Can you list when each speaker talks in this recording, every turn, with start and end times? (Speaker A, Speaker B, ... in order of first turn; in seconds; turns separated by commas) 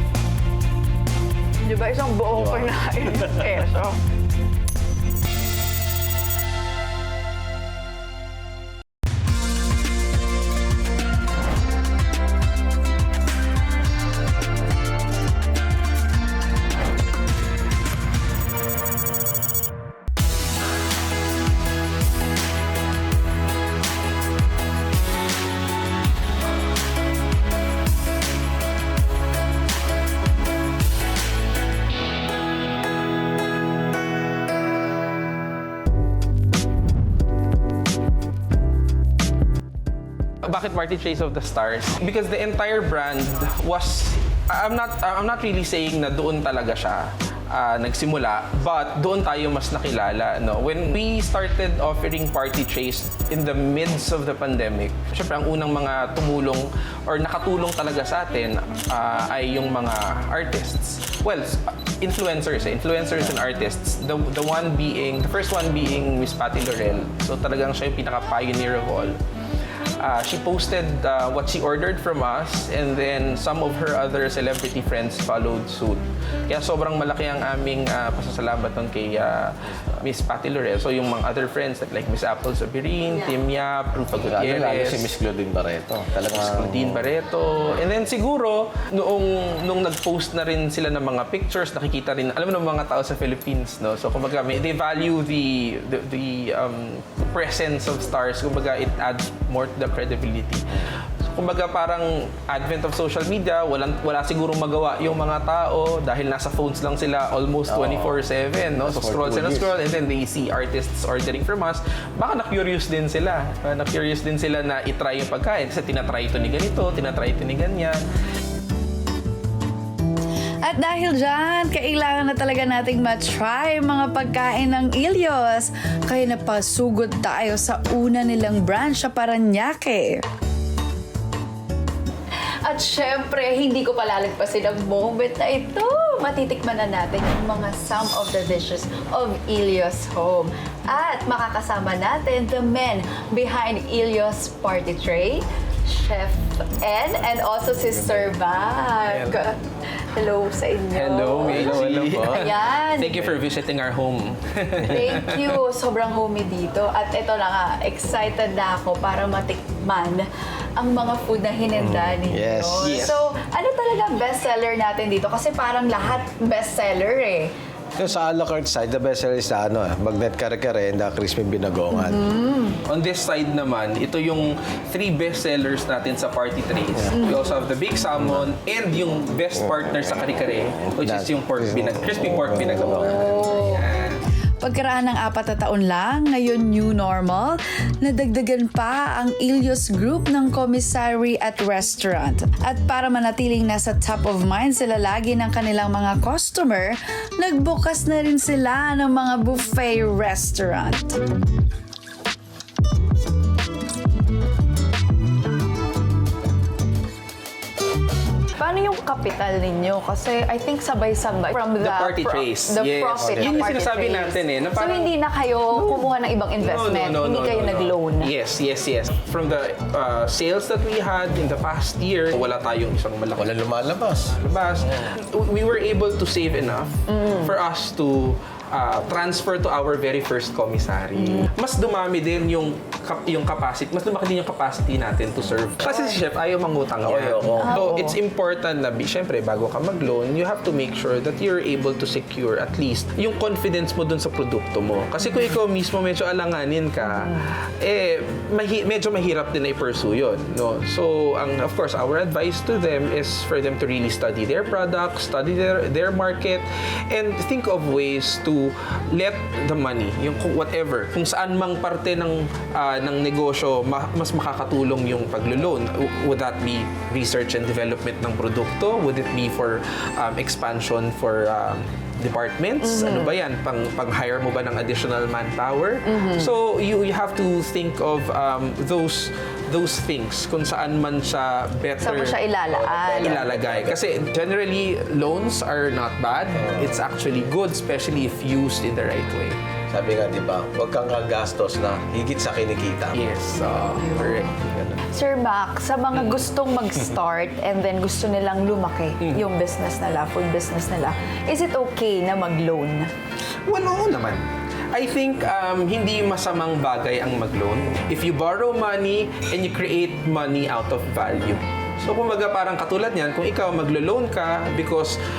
Speaker A: 1.7-4.0, Speaker B: 2.4-2.7, Speaker C: 40.4-69.1, Speaker C: 70.0-85.1, Speaker B: 84.2-87.0, Speaker C: 86.3-100.7, Speaker C: 101.3-118.0, Speaker B: 107.7-108.2, Speaker B: 108.8-109.7, Speaker D: 120.6-130.2, Speaker A: 132.7-149.6, Speaker B: 147.9-148.3, Speaker C: 149.1-149.4, Speaker A: 150.1-153.3, Speaker C: 150.9-155.6, Speaker B: 151.4-152.5, Speaker A: 154.9-160.2, Speaker A: 160.8-167.5, Speaker B: 161.8-163.2, Speaker C: 162.8-163.2, Speaker B: 168.0-172.2, Speaker A: 171.9-172.8, Speaker C: 172.9-184.2, Speaker A: 177.2-177.5, Speaker B: 178.2-178.5, Speaker B: 179.7-180.1, Speaker B: 180.8-183.2, Speaker A: 182.9-183.8, Speaker D: 184.6-201.2, Speaker A: 208.6-218.3, Speaker C: 211.8-215.1, Speaker B: 213.2-213.7, Speaker C: 215.7-223.6, Speaker B: 223.3-224.4, Speaker C: 224.4-289.6, Speaker A: 227.1-227.6, Speaker A: 235.9-236.2, Speaker B: 237.0-237.9, Speaker A: 237.6-238.2, Speaker A: 247.0-247.4, Speaker A: 272.8-273.3, Speaker A: 276.1-276.5, Speaker A: 282.0-283.4, Speaker B: 282.8-284.0, Speaker B: 286.6-287.0, Speaker B: 289.9-293.2, Speaker C: 293.1-295.0, Speaker A: 295.1-303.1, Speaker C: 303.7-315.2